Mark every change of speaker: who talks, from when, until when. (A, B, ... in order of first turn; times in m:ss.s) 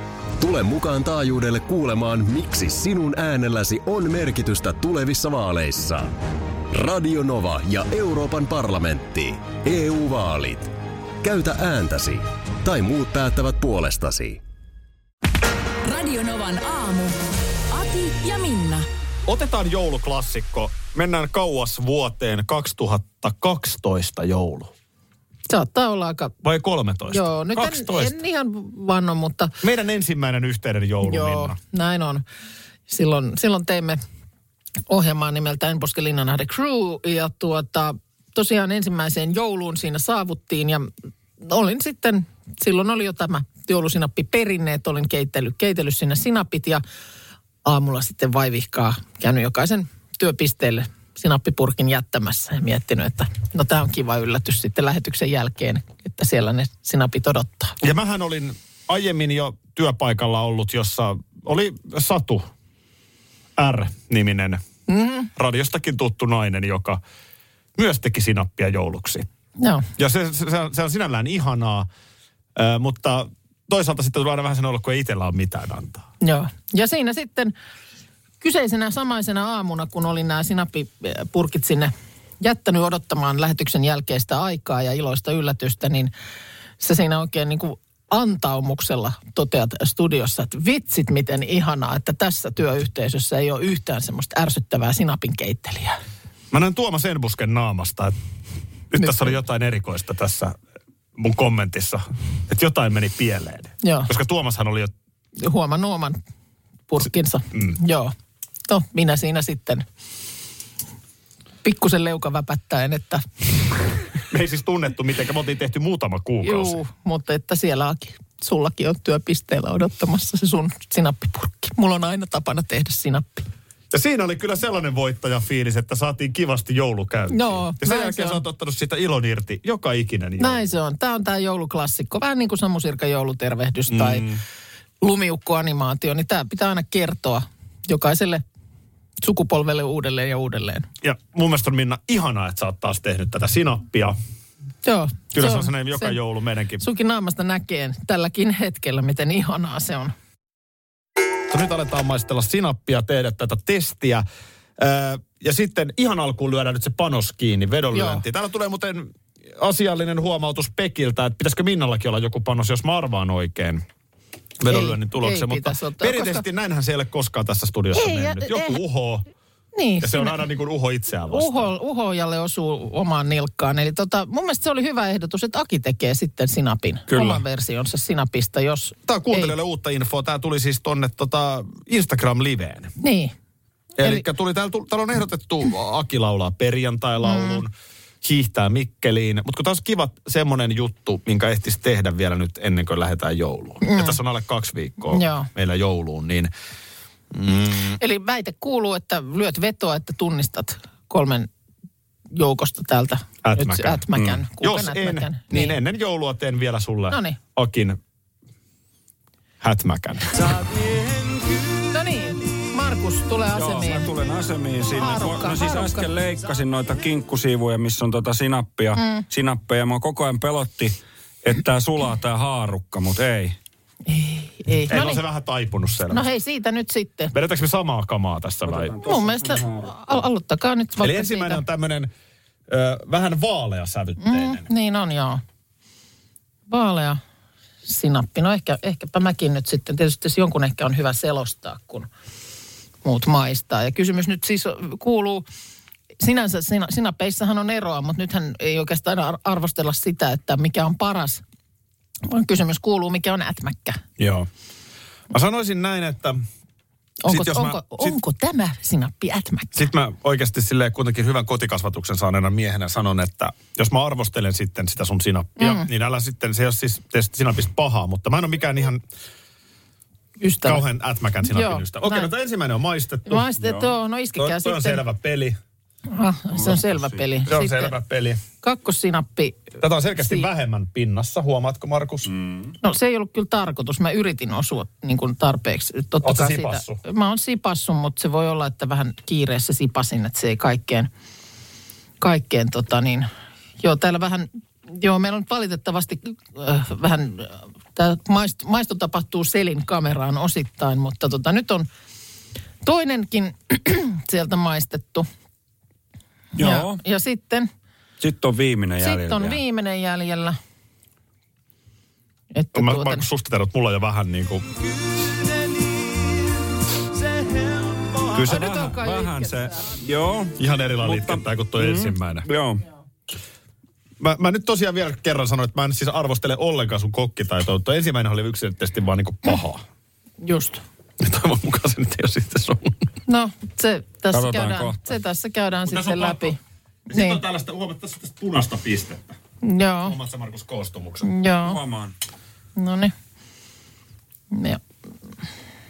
0:00.4-0:06.1 A
0:06.7-0:10.7 A
0:11.2-0:14.4 A
0:15.8-0:17.2 B
0:17.7-0:18.9 B
0:19.2-0:24.7 C
0:25.5-0:26.3 D
0:26.4-0:28.2 C
0:27.1-0:29.5 D
0:29.6-0:31.6 C
0:31.0-0:32.2 D
0:32.9-0:34.0 D
0:34.9-0:46.8 D
0:47.6-0:57.8 D
0:57.8-1:02.5 C
1:03.6-1:04.6 C
1:04.9-1:05.3 D
1:05.3-1:07.0 C
1:07.8-1:09.3 C
1:09.6-1:09.9 D
1:10.0-1:11.9 C
1:12.6-1:16.0 C
1:16.2-1:17.5 D
1:18.4-1:26.1 D
1:26.8-1:36.0 D
1:36.5-1:38.2 C
1:38.9-1:40.6 C
1:39.0-1:39.3 D
1:41.1-1:44.9 C
1:43.8-1:44.1 D
1:45.4-1:46.2 D
1:46.9-1:48.1 D
1:48.7-1:49.8 D
1:51.6-1:53.3 D
1:54.3-1:56.8 C
1:56.4-2:03.5 D
2:03.9-2:10.7 C
2:07.3-2:08.4 D
2:10.4-2:14.2 D
2:13.9-2:14.4 C
2:15.0-2:18.4 D
2:19.2-2:20.9 D
2:21.0-2:24.2 C
2:24.8-2:26.2 D
2:25.3-2:26.8 C
2:26.8-2:30.1 D
2:31.5-2:34.2 C
2:34.8-2:43.8 C
2:37.9-2:38.2 D
2:44.6-2:49.3 C
2:44.7-2:46.4 D
2:47.9-2:48.8 D
2:49.7-2:50.4 D
2:50.0-2:51.7 C
2:51.3-2:59.5 D
2:57.1-2:57.4 E
2:59.1-3:02.9 C
3:03.0-3:03.3 D
3:04.0-3:07.7 C
3:07.2-3:07.6 D
3:08.2-3:16.5 C
3:13.8-3:14.2 D
3:15.1-3:15.5 D
3:17.3-3:18.0 C
3:18.0-3:21.5 D
3:22.3-3:25.8 D
3:23.4-3:24.0 C
3:24.6-3:28.0 C
3:27.1-3:27.4 D
3:29.6-3:30.6 C
3:31.9-3:34.1 D
3:33.5-3:43.6 E
3:34.9-3:36.0 D
3:39.0-3:39.2 D
3:44.1-3:45.2 D
3:44.9-3:46.3 C
3:46.1-3:47.3 D
3:47.3-3:48.9 C
3:48.7-3:49.9 E
3:49.0-3:51.6 D
3:51.0-3:52.1 C
3:52.7-3:54.6 C
3:54.2-3:55.4 D
3:56.7-3:57.2 D
3:57.8-4:02.1 D
4:03.0-4:05.4 D
4:06.2-4:11.4 D
4:12.2-4:14.0 D
4:14.2-4:14.5 C
4:15.3-4:16.4 C
4:17.2-4:19.8 D
4:17.3-4:18.2 C
4:19.7-4:29.0 C
4:25.6-4:25.9 D
4:30.4-4:30.8 D
4:30.6-4:33.5 C
4:31.5-4:32.3 D
4:33.2-4:35.0 D
4:33.6-4:33.9 E
4:34.4-4:35.6 C
4:36.1-4:37.9 D
4:36.5-4:37.2 E
4:37.5-4:38.4 C
4:38.6-4:40.5 D
4:39.8-4:42.3 C
4:42.3-4:42.7 E
4:42.8-4:51.1 D
4:46.2-4:47.0 C
4:52.2-4:53.3 D
4:53.8-5:01.9 D
5:02.8-5:05.3 D
5:06.6-5:07.0 E
5:06.6-5:07.7 D
5:08.2-5:09.6 E
5:09.0-5:10.6 D
5:12.5-5:13.2 D
5:12.7-5:14.7 C
5:18.3-5:18.8 C
5:18.4-5:22.8 E
5:18.4-5:20.0 D
5:20.6-5:22.5 C
5:24.2-5:29.8 C
5:30.4-5:30.8 D
5:31.2-5:33.0 C
5:33.3-5:36.6 D
5:34.3-5:35.1 E
5:35.9-5:36.5 C
5:37.1-5:39.4 C
5:37.1-5:37.4 D
5:39.6-5:40.2 D
5:40.0-5:41.3 C
5:41.2-5:41.8 D
5:41.6-5:42.1 E
5:42.8-5:43.1 D
5:44.5-5:44.8 D